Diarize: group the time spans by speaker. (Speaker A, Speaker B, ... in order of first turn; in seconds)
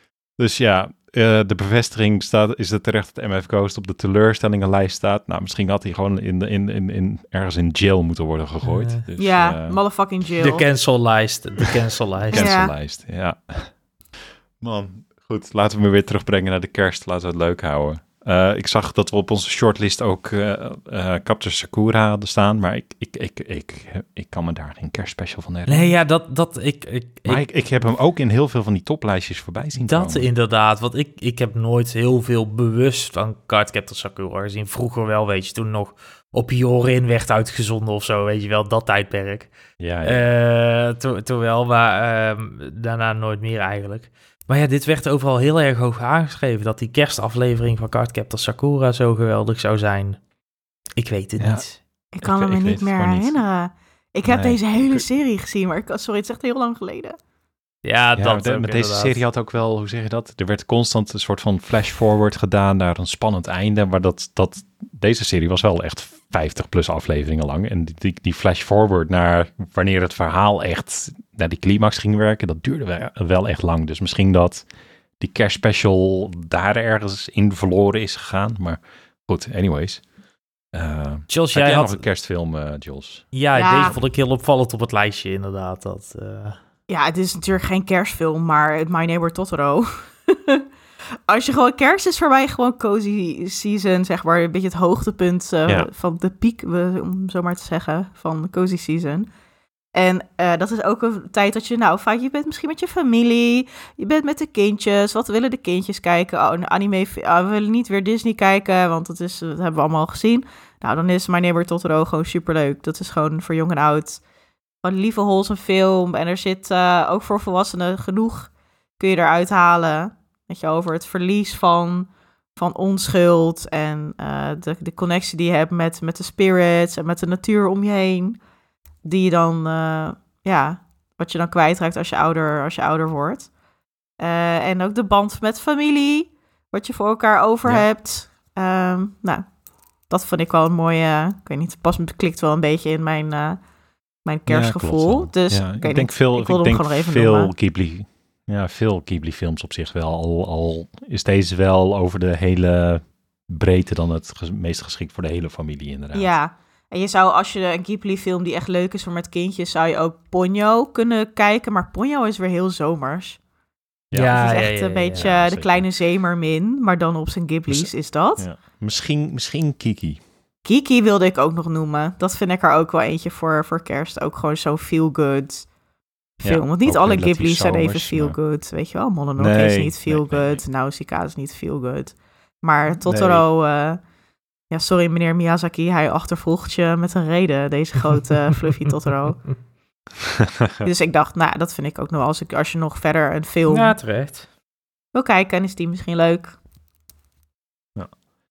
Speaker A: 0.4-9.8, 12.2-13.7, 14.6-25.9, 27.2-30.2, 39.8-40.3, 51.4-51.6, 52.2-53.4, 54.3-55.0, 58.2-74.6, 75.2-80.0, 80.7-83.3, 144.5-156.3, 164.1-164.4, 165.1-165.8, 167.7-170.2, 176.4-178.4, 179.4-180.6, 183.1-183.4
Speaker B: 8.6-9.0, 10.4-12.5, 25.7-27.4, 29.8-50.2, 51.0-51.8, 57.8-59.2, 81.3-82.0, 83.3-86.6, 164.1-165.3, 193.7-194.4
Speaker C: 9.2-10.6, 12.3-12.7, 52.1-57.2, 83.5-83.9, 86.9-90.6, 91.3-99.3, 99.9-114.2, 114.8-128.4, 129.0-133.5, 134.2-139.5, 140.1-143.6, 144.2-147.5, 156.1-163.4, 164.3-168.4, 170.6-175.7, 176.4-184.0, 184.7-189.4, 190.8-194.0, 195.1-196.6